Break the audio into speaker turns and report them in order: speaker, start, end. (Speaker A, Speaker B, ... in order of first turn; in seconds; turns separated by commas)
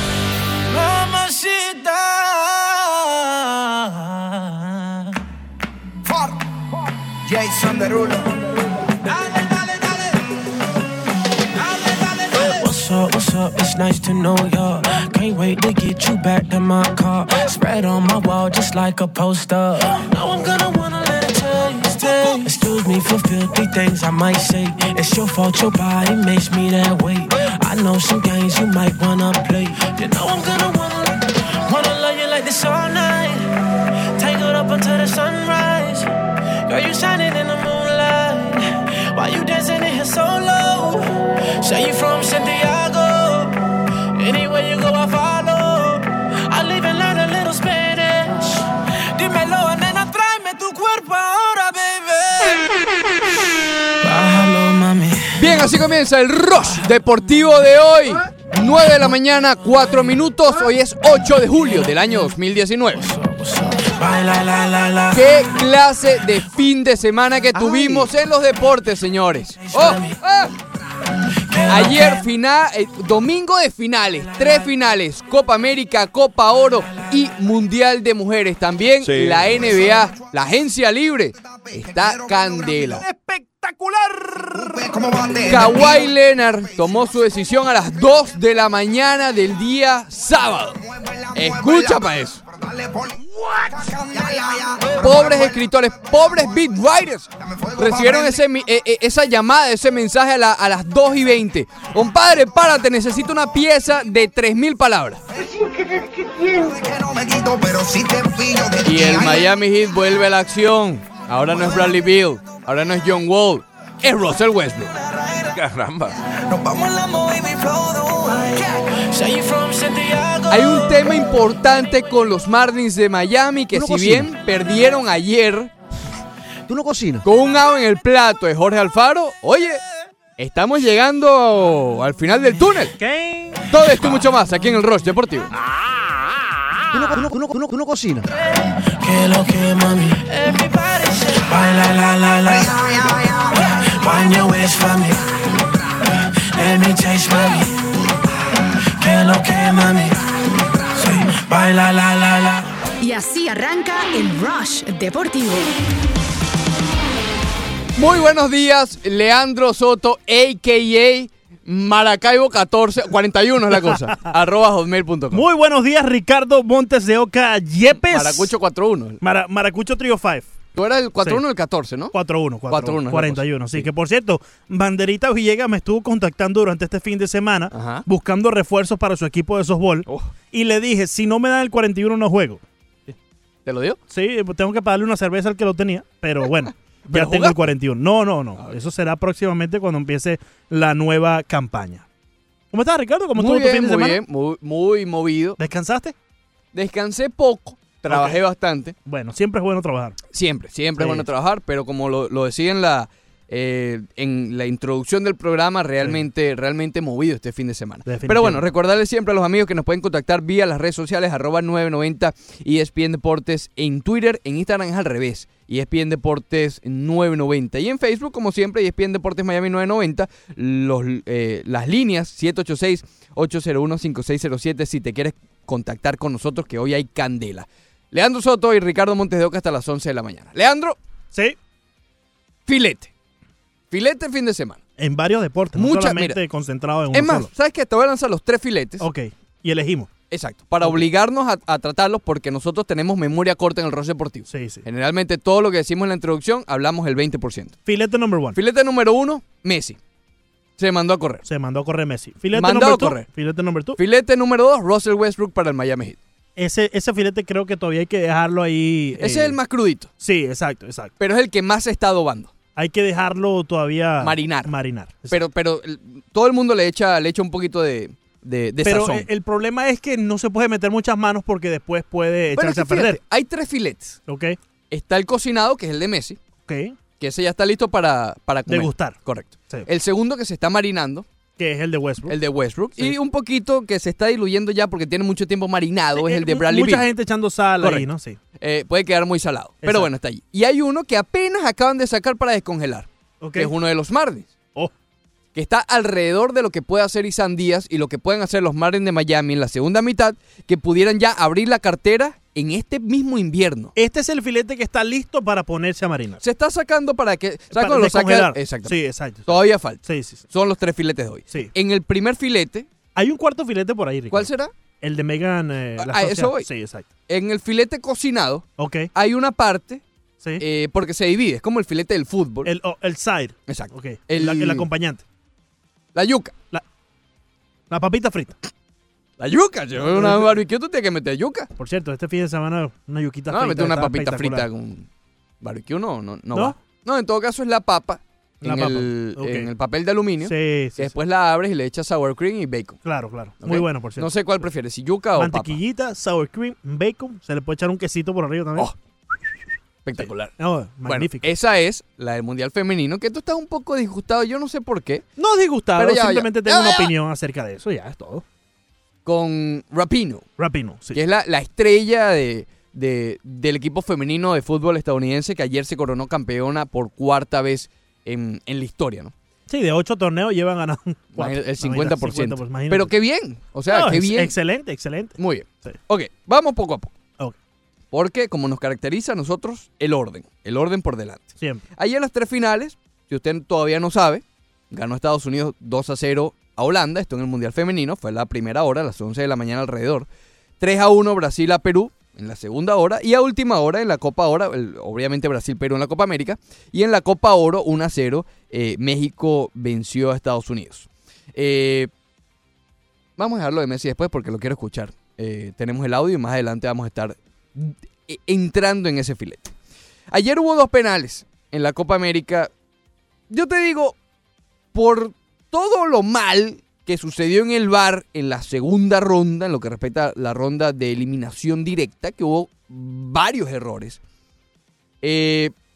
Speaker A: 0.7-5.1, Speaker A: 12.1-33.5, Speaker A: 34.2-36.1, Speaker A: 36.7-43.6, Speaker A: 44.1-53.5, Speaker A: 54.0-55.7, Speaker B: 55.4-63.1, Speaker A: 63.0-65.7, Speaker B: 65.1-70.5, Speaker A: 67.6-68.0, Speaker A: 69.6-70.2, Speaker A: 71.5-72.2, Speaker B: 71.7-83.0, Speaker C: 79.0-79.6, Speaker D: 83.1-85.9, Speaker B: 85.5-90.8, Speaker B: 91.3-92.4, Speaker B: 95.0-105.2, Speaker A: 106.3-106.8, Speaker B: 108.8-114.9, Speaker C: 115.5-116.2, Speaker A: 116.6-121.4, Speaker B: 120.5-125.7, Speaker C: 123.7-124.3, Speaker C: 126.7-127.3, Speaker B: 127.2-129.8, Speaker B: 130.4-132.9, Speaker B: 133.7-135.5, Speaker C: 133.8-134.3, Speaker C: 136.9-138.3, Speaker A: 138.6-145.3, Speaker A: 146.3-148.0, Speaker A: 148.9-150.3, Speaker A: 151.0-152.7, Speaker E: 153.0-155.7, Speaker B: 158.0-165.4, Speaker D: 163.8-164.3, Speaker D: 165.3-168.5, Speaker B: 168.0-169.2, Speaker D: 169.2-170.5, Speaker B: 170.7-172.2, Speaker D: 172.1-182.6, Speaker B: 172.7-173.9, Speaker B: 177.7-178.1, Speaker B: 180.1-180.3, Speaker B: 183.7-184.0, Speaker D: 184.1-192.1, Speaker B: 187.1-187.6, Speaker D: 192.7-194.2, Speaker B: 193.4-195.6, Speaker D: 195.6-196.2, Speaker B: 196.7-198.9, Speaker D: 198.1-198.4, Speaker D: 199.1-200.2, Speaker B: 200.3-231.0, Speaker D: 201.0-201.3, Speaker D: 208.1-208.6, Speaker B: 232.7-233.1, Speaker B: 233.9-234.8, Speaker D: 235.0-237.5, Speaker B: 235.8-236.4, Speaker B: 237.1-239.1, Speaker D: 239.0-240.1, Speaker B: 240.3-247.8, Speaker D: 244.5-244.8, Speaker D: 247.9-248.6, Speaker B: 248.5-250.0, Speaker B: 250.8-251.4, Speaker D: 251.5-254.0, Speaker B: 252.5-253.3, Speaker B: 254.0-256.2, Speaker D: 256.6-259.6, Speaker B: 259.2-260.1, Speaker D: 260.2-261.1, Speaker B: 261.2-262.5, Speaker D: 262.8-265.4, Speaker B: 264.2-264.7, Speaker B: 265.3-269.3, Speaker D: 268.8-273.2, Speaker B: 272.6-274.2, Speaker D: 274.3-274.6, Speaker B: 274.9-276.4, Speaker D: 276.7-277.0, Speaker B: 277.2-281.3, Speaker D: 278.7-279.2, Speaker D: 281.6-282.4, Speaker B: 282.3-287.1, Speaker D: 286.2-288.4, Speaker B: 287.8-288.1, Speaker B: 288.6-294.5, Speaker D: 289.8-290.1, Speaker D: 293.4-293.7, Speaker B: 295.5-303.9, Speaker D: 304.0-306.4, Speaker B: 306.4-312.9, Speaker D: 307.7-310.4, Speaker D: 313.2-314.5, Speaker B: 314.3-314.7, Speaker D: 315.0-317.1, Speaker B: 316.0-316.7, Speaker B: 317.3-320.0, Speaker D: 318.8-319.1, Speaker B: 320.6-322.7, Speaker D: 322.6-325.2, Speaker B: 323.7-324.9, Speaker B: 326.1-326.6, Speaker D: 327.9-328.6, Speaker B: 329.4-331.7, Speaker D: 330.0-330.6, Speaker D: 331.8-334.7, Speaker B: 333.5-335.1, Speaker B: 335.6-343.0, Speaker D: 336.5-336.8, Speaker D: 338.6-339.7, Speaker D: 340.4-341.1, Speaker D: 343.1-344.3, Speaker B: 343.6-345.8, Speaker D: 345.4-348.9, Speaker B: 350.0-350.5, Speaker D: 350.2-351.4, Speaker B: 351.1-355.2, Speaker D: 355.4-358.4, Speaker B: 356.0-357.1, Speaker B: 359.2-360.4, Speaker D: 360.6-361.2, Speaker B: 361.1-369.3, Speaker D: 369.7-373.1, Speaker B: 371.4-374.5, Speaker D: 373.9-376.0, Speaker B: 375.4-377.1, Speaker B: 378.1-390.3, Speaker B: 390.8-402.1, Speaker B: 403.4-409.7, Speaker B: 410.3-412.7, Speaker B: 413.5-414.2, Speaker B: 414.9-424.2, Speaker B: 425.2-425.7